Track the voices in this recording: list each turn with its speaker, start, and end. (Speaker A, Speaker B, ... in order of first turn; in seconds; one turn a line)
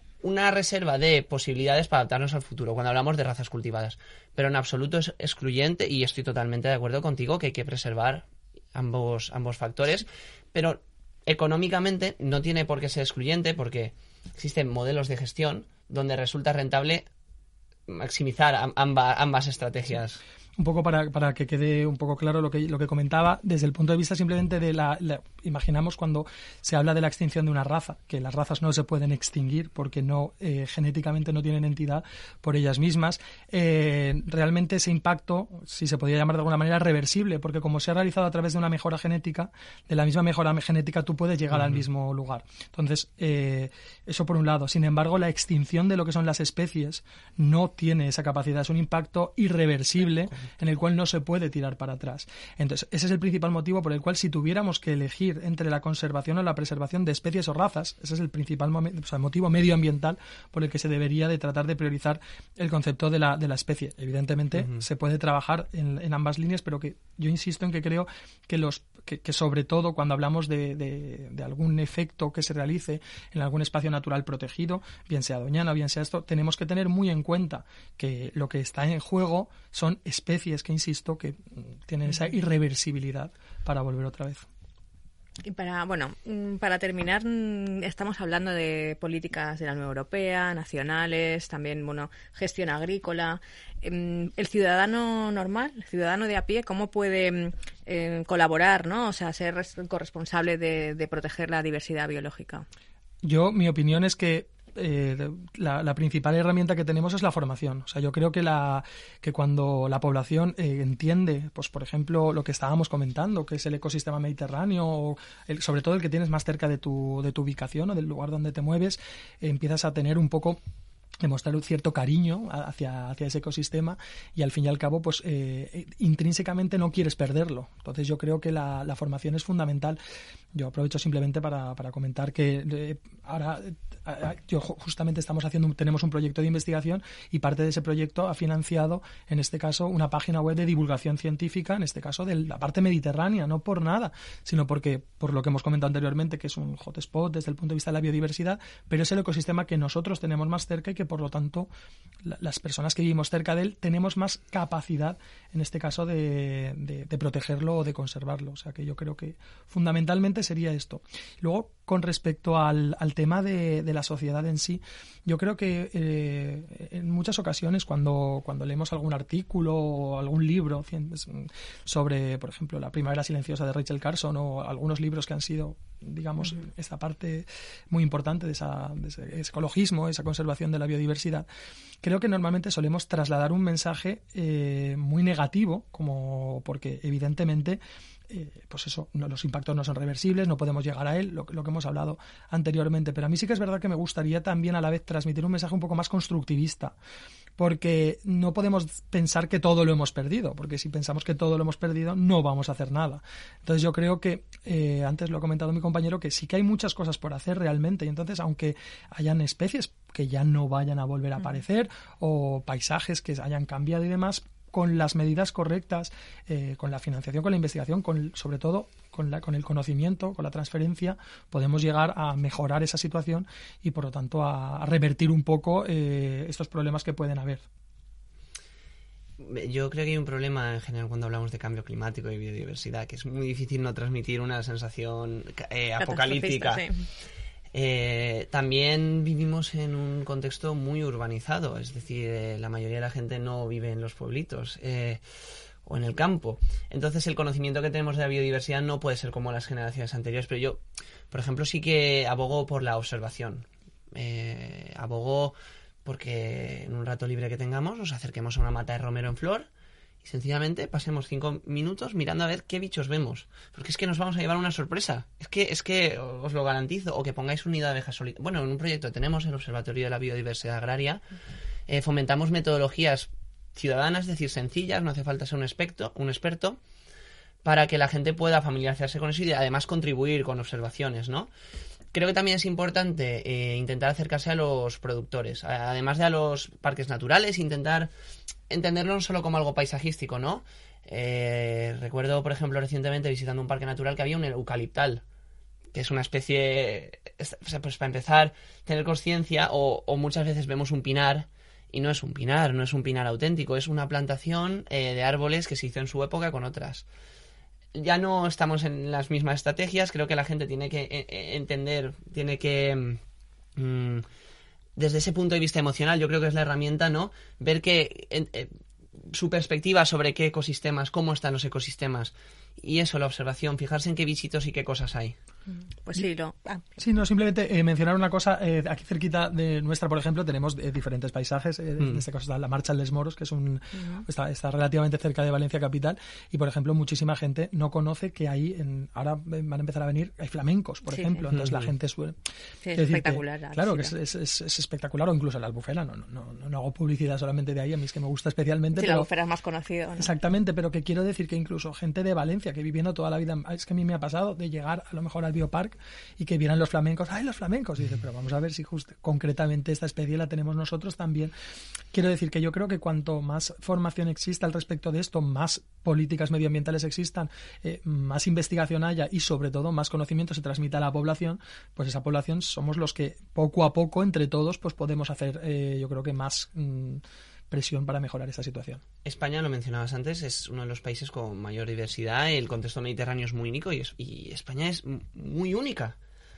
Speaker A: 0.2-17.1
Speaker A: 17.9-20.2
Speaker B: 20.6-84.4
Speaker C: 85.4-102.7
Speaker B: 103.2-120.6
Speaker B: 121.2-130.0
Speaker B: 130.5-151.7
Speaker B: 152.2-181.5
Speaker B: 182.0-196.9
Speaker B: 197.6-227.6
Speaker A: 229.4-236.8
Speaker C: 236.0-236.9
Speaker A: 237.7-245.2
Speaker A: 245.8-259.7
Speaker A: 260.2-271.2
Speaker A: 271.9-276.8
Speaker A: 277.6-281.5
Speaker A: 282.1-288.1
Speaker A: 288.7-295.2
Speaker A: 295.9-307.1
Speaker A: 307.9-313.2
Speaker A: 313.8-314.2
Speaker A: 315.0-325.3
Speaker C: 326.0-326.8
Speaker B: 327.0-342.4
Speaker C: 333.9-334.2
Speaker C: 341.1-341.4
Speaker C: 342.8-344.1
Speaker B: 342.9-349.3
Speaker C: 348.9-350.3
Speaker B: 350.2-361.5
Speaker B: 362.1-379.0
Speaker A: 379.2-386.1